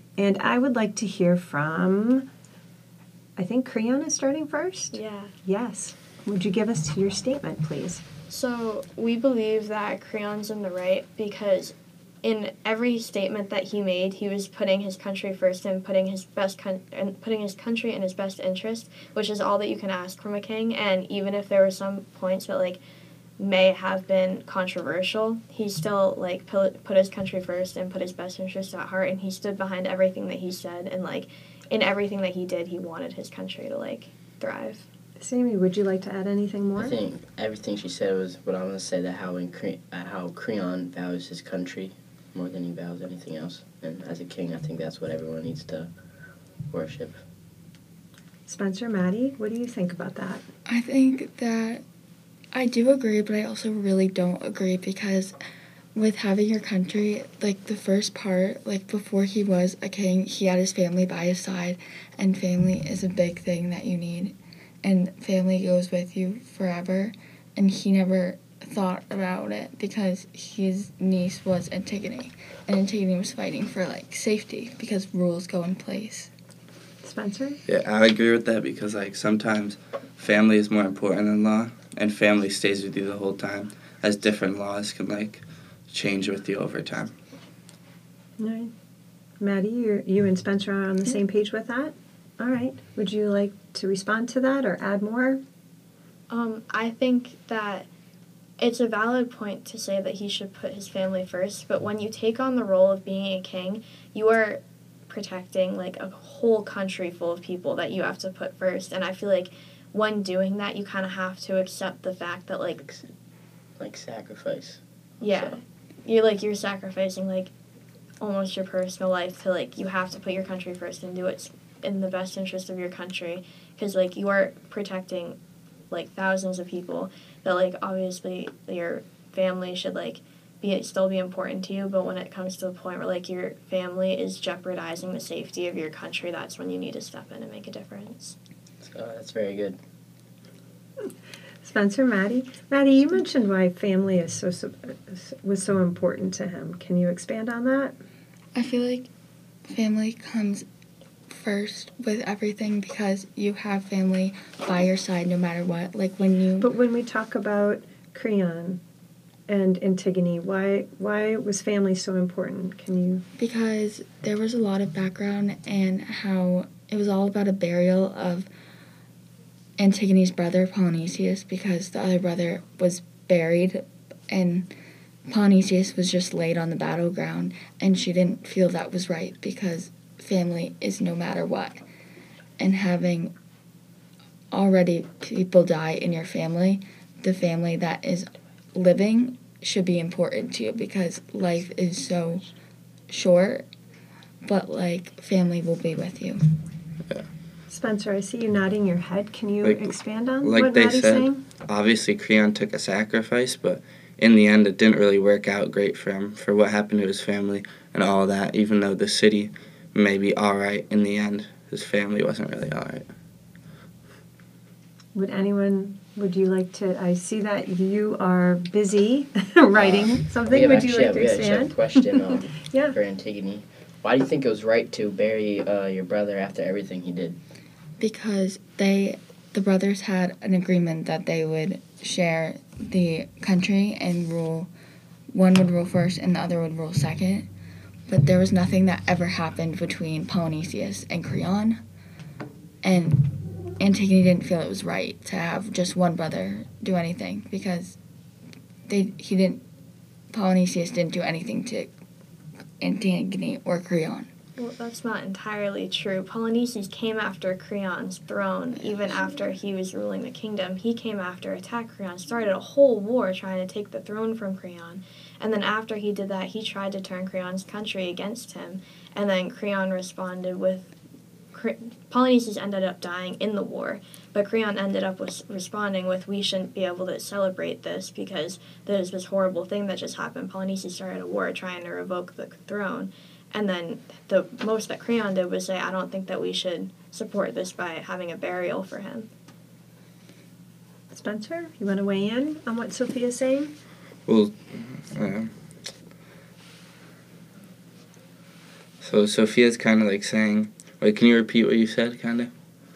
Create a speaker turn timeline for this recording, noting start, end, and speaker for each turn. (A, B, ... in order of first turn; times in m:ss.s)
0:00.2-0:02.3 A
0:03.4-0:08.0 A
0:04.9-0:05.3 B
0:08.3-0:22.8 B
0:23.4-0:34.9 B
0:35.2-0:37.0 A
0:36.8-0:45.9 C
0:46.7-0:47.2 C
0:48.4-0:50.4 A
0:50.7-0:51.8 D
0:52.5-0:55.4 D
0:55.9-1:16.3 D
1:17.0-1:17.6 A
1:17.7-1:27.1 E
1:28.4-1:28.7 A
1:29.4-1:35.4 A
1:36.3-1:37.9 B
1:38.6-1:52.8 B
1:52.8-1:53.0 C
1:53.8-1:55.6 C
1:55.2-1:57.5 B
1:58.2-2:05.4 B
2:05.9-2:18.4 B
2:18.8-2:19.8 C
2:21.6-2:28.0 A
2:28.5-2:29.1 D
2:29.7-2:30.6 D
2:31.3-2:36.7 D
2:36.6-2:38.8 A
2:39.5-2:43.2 A
2:43.4-2:48.5 D
2:49.8-2:54.7 D
2:55.3-3:01.8 D
3:02.6-3:03.3 D
3:04.5-3:12.4 D
3:13.1-3:13.7 D
3:14.4-3:16.4 D
3:17.7-3:21.4 A
3:19.6-3:33.0 E
3:35.1-3:43.0 A
3:39.7-3:47.4 C
3:48.0-3:54.7 D
3:55.3-3:57.5 D
3:58.1-4:01.8 D
4:02.8-4:08.0 D
4:08.9-4:09.6 D
4:10.3-4:11.9 D
4:12.8-4:14.3 D
4:14.6-4:30.9 B
4:18.8-4:19.2 D
4:31.5-4:49.3 B
4:51.1-4:53.7 A
4:54.3-4:55.5 E
4:59.0-5:02.5 E